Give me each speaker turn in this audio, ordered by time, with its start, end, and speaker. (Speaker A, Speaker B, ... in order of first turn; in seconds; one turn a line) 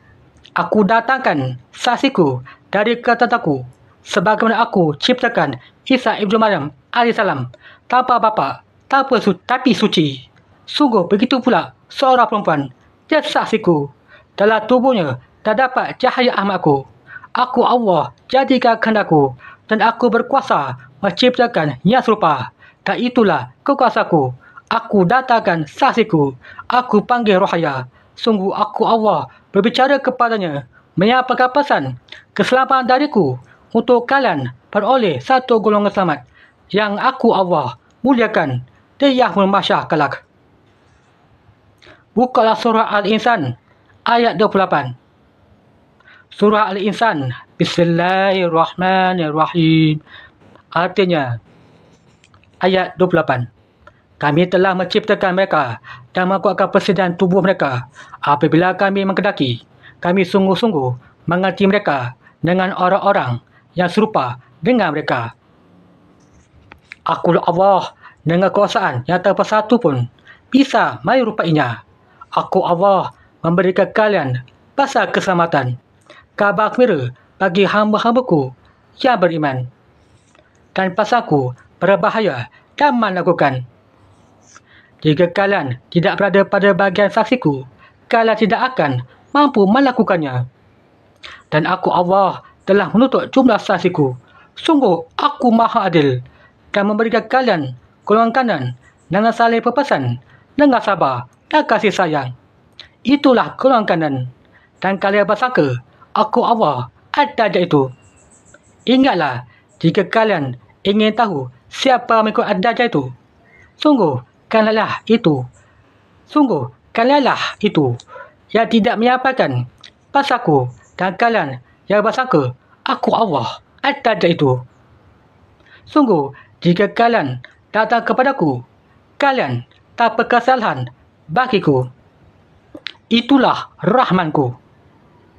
Speaker A: 0.6-40.2
Speaker A: 42.1-45.0
Speaker A: 46.3-50.0
Speaker A: 50.7-51.4
Speaker A: 52.6-53.5
Speaker A: 54.2-65.3
Speaker A: 67.1-71.8
Speaker A: 72.3-75.8
Speaker A: 76.4-79.7
Speaker A: 80.8-83.7
Speaker A: 85.0-90.5
Speaker A: 91.5-96.2
Speaker A: 96.7-102.3
Speaker A: 103.1-104.3
Speaker A: 104.8-107.9
Speaker A: 108.9-113.1
Speaker A: 113.8-115.5
Speaker A: 116.3-118.0
Speaker A: 118.5-124.6
Speaker A: 125.9-128.6
Speaker A: 129.2-131.9
Speaker A: 133.1-134.6